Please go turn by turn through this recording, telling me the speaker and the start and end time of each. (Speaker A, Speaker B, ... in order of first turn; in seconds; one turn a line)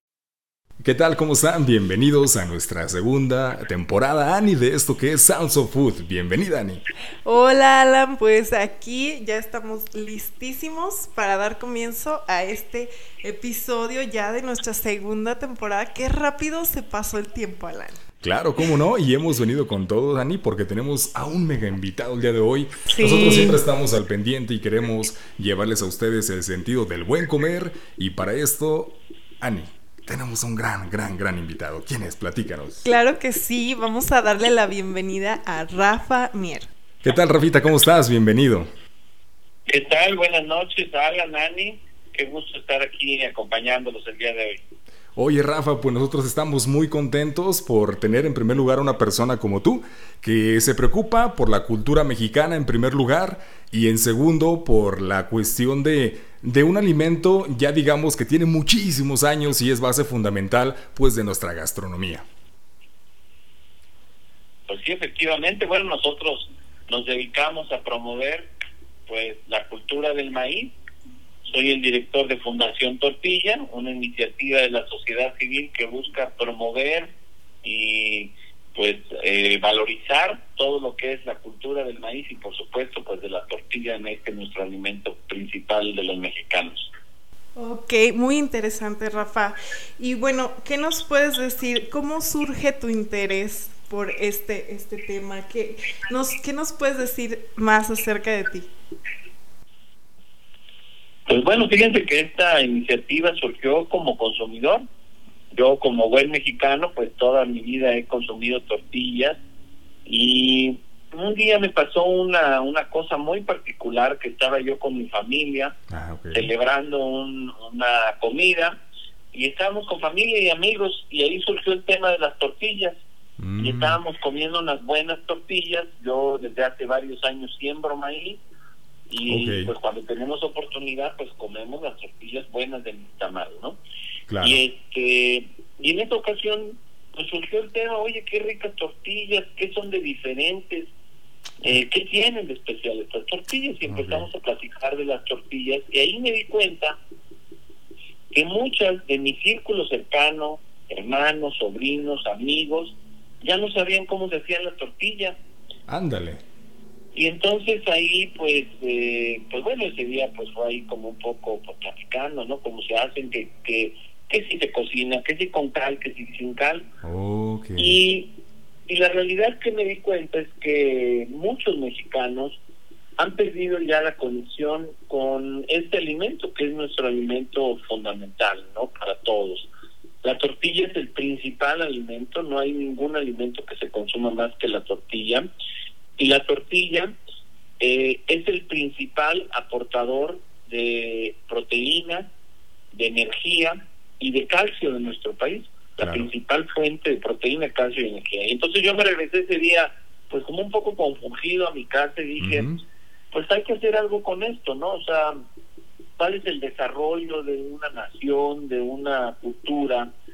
Speaker A: 0.8-6.8
Speaker B: 7.2-18.0
Speaker A: 18.2-32.9
Speaker B: 22.9-23.6
Speaker B: 32.8-36.7
Speaker A: 37.0-38.7
Speaker C: 39.7-44.6
Speaker A: 45.1-62.2
Speaker C: 64.7-68.5
Speaker C: 69.1-70.8
Speaker C: 71.4-86.9
Speaker B: 87.5-98.7
Speaker C: 101.3-104.8
Speaker C: 105.5-109.4
Speaker C: 110.0-115.8
Speaker A: 115.9-116.5
Speaker C: 116.3-118.8
Speaker C: 119.3-123.0
Speaker A: 123.4-124.0
Speaker C: 123.6-128.4
Speaker C: 129.1-133.8
Speaker A: 129.3-129.7
Speaker A: 134.3-134.6
Speaker C: 134.4-140.9
Speaker C: 141.6-147.0
Speaker A: 143.8-144.3
Speaker C: 148.3-155.4
Speaker A: 155.9-156.4
Speaker C: 157.1-166.9
Speaker A: 167.0-168.0
Speaker C: 167.8-168.3
Speaker C: 168.9-172.6
Speaker C: 173.2-179.7
Speaker C: 180.2-185.5
Speaker C: 186.2-187.1
Speaker C: 187.8-192.3
Speaker C: 192.9-202.7
Speaker A: 196.0-196.3
Speaker A: 202.4-202.8
Speaker C: 203.3-205.4
Speaker C: 206.2-210.1